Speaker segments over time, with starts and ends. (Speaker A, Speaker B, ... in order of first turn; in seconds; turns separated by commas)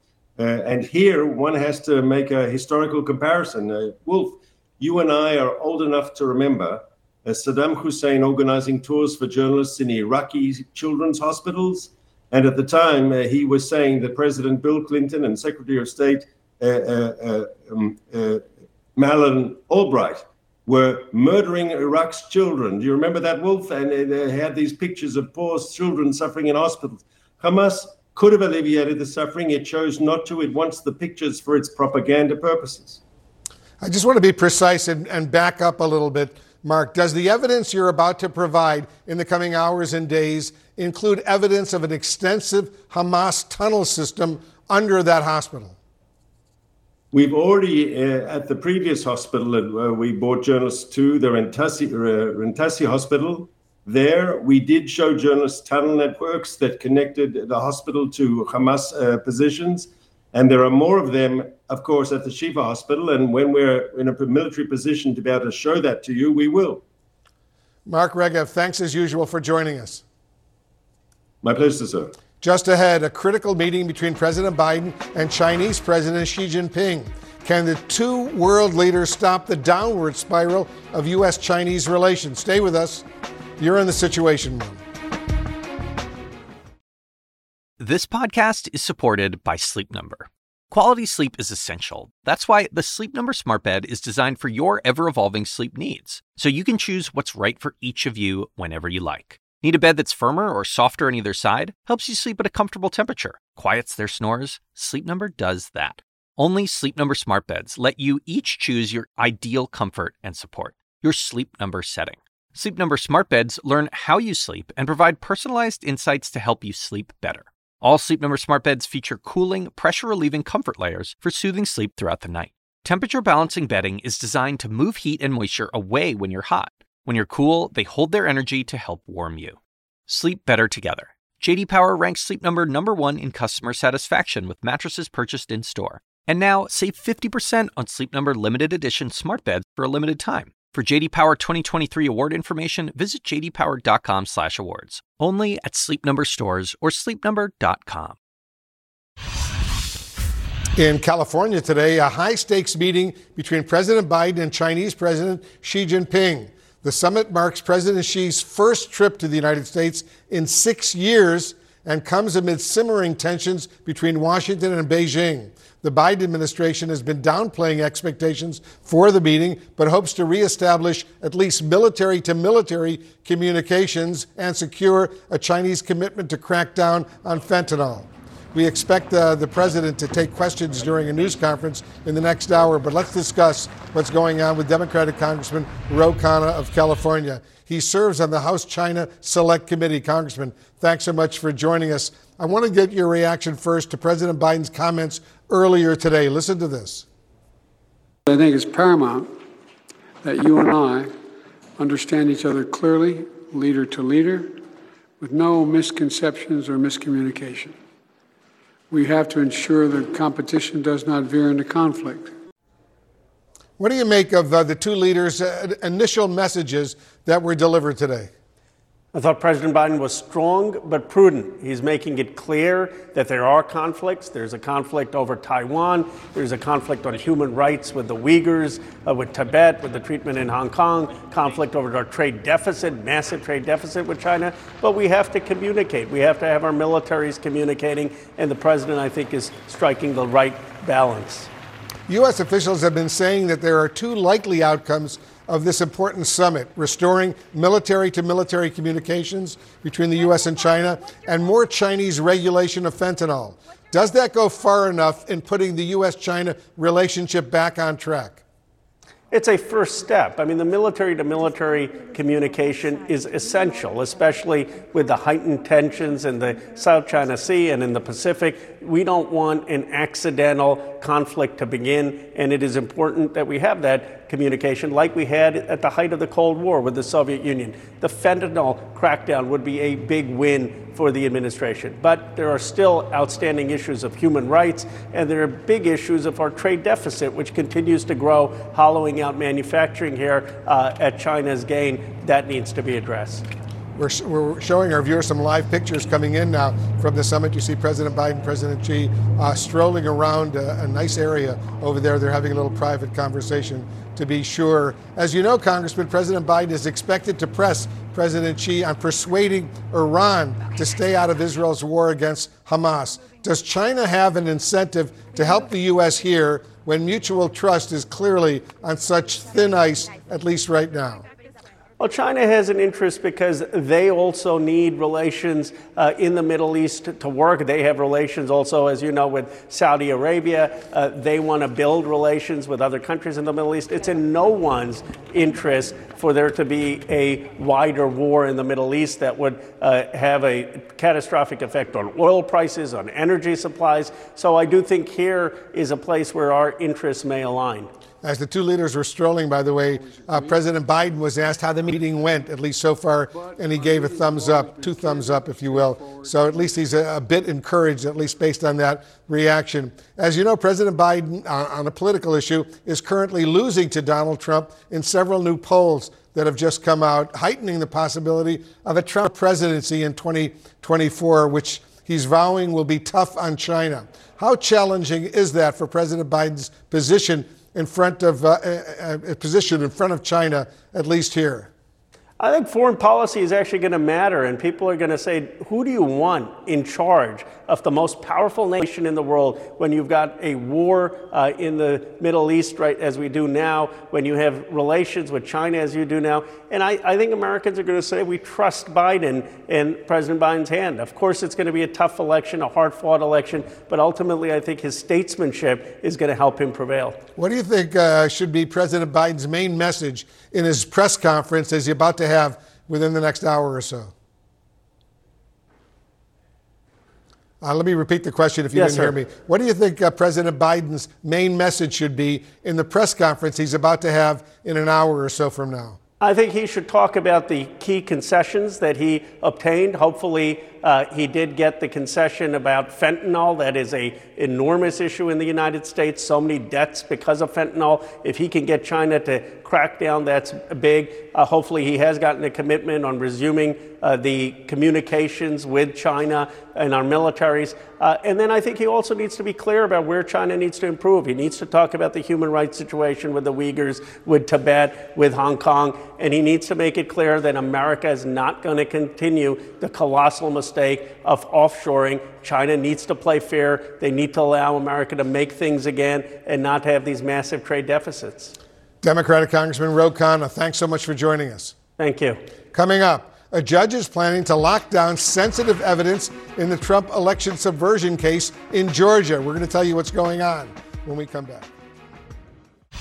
Speaker A: 0.4-33.0, Speaker B: 33.8-45.8, Speaker A: 47.1-66.8, Speaker B: 67.9-70.0, Speaker A: 71.4-72.1, Speaker B: 72.4-83.0, Speaker B: 83.6-84.8, Speaker C: 87.8-129.6, Speaker C: 130.1-148.2, Speaker B: 150.8-197.1, Speaker D: 198.3-199.3, Speaker D: 200.2-201.1, Speaker D: 201.8-204.6, Speaker D: 205.2-207.8, Speaker D: 208.9-212.3, Speaker B: 213.8-218.3, Speaker E: 219.1-241.5, Speaker B: 242.1-258.4, Speaker E: 259.3-293.4, Speaker B: 294.0-321.2, Speaker E: 322.0-347.9, Speaker B: 348.2-381.7, Speaker D: 353.4-356.5, Speaker E: 382.4-407.2, Speaker B: 407.4-414.1, Speaker B: 417.6-426.0, Speaker E: 418.8-419.1, Speaker E: 426.2-468.5, Speaker B: 469.0-471.8, Speaker E: 472.0-472.4, Speaker B: 472.7-481.7